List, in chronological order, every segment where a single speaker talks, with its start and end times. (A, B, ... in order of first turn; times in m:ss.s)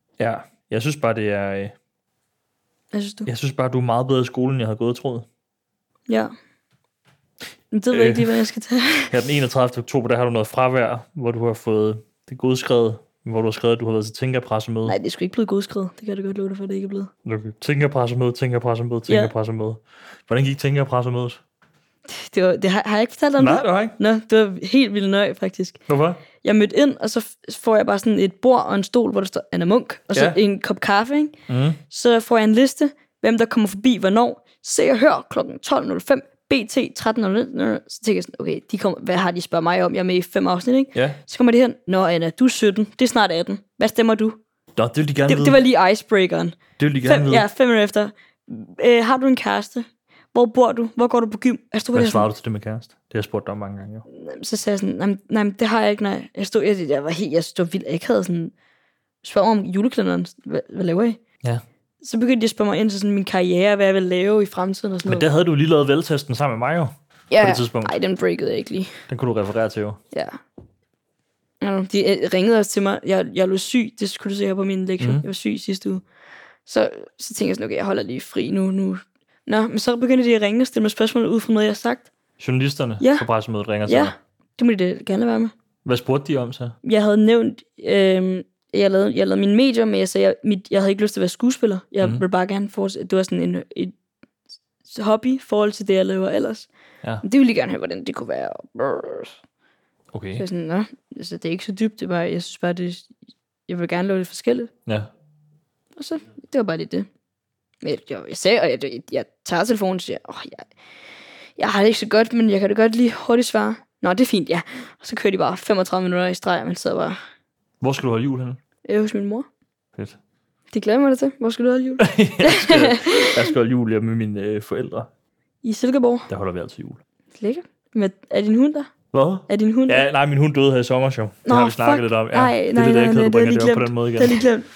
0:00.2-0:01.7 A
0:02.9-0:03.3 B
0:03.2-0:05.2 A
0:06.1-0:06.3 B
0:07.7-0:09.1 B
0:07.9-0:08.3 A
0:09.1-0:15.0 A
0:14.9-0:17.1 B
0:17.2-0:21.4 A
0:19.1-0:19.3 B
0:22.1-0:25.8 B
0:23.4-0:24.0 A
0:25.9-0:26.2 A
0:26.4-0:31.4 B
0:31.5-0:31.8 A
0:31.9-0:44.4 B
0:40.9-0:41.2 A
0:44.8-0:45.6 A
0:45.3-0:52.3 B
0:46.8-0:47.4 A
0:51.9-0:54.0 A
0:54.1-0:58.5 B
0:59.2-1:01.2 B
1:02.0-1:05.2 B
1:05.0-1:07.9 A
1:07.3-1:09.0 B
1:09.1-1:10.0 A
1:10.1-1:10.4 B
1:11.6-1:16.0 B
1:15.0-1:15.2 A
1:16.6-1:22.1 B
1:22.4-1:24.1 A
1:23.0-1:23.3 B
1:23.9-1:25.5 B
1:25.8-1:26.8 A
1:26.8-1:33.9 B
1:34.9-1:36.7 B
1:37.2-1:39.4 B
1:40.1-1:40.4 A
1:40.4-1:43.1 B
1:43.7-1:44.7 B
1:46.0-1:47.1 B
1:47.8-1:50.6 B
1:51.6-1:57.2 B
1:57.8-1:58.6 A
1:58.8-1:59.4 B
2:00.7-2:03.5 B
2:02.0-2:05.1 A
2:05.6-2:06.3 B
2:06.3-2:07.0 A
2:07.4-2:08.9 B
2:09.1-2:14.4 A
2:09.5-2:10.0 B
2:11.4-2:14.6 B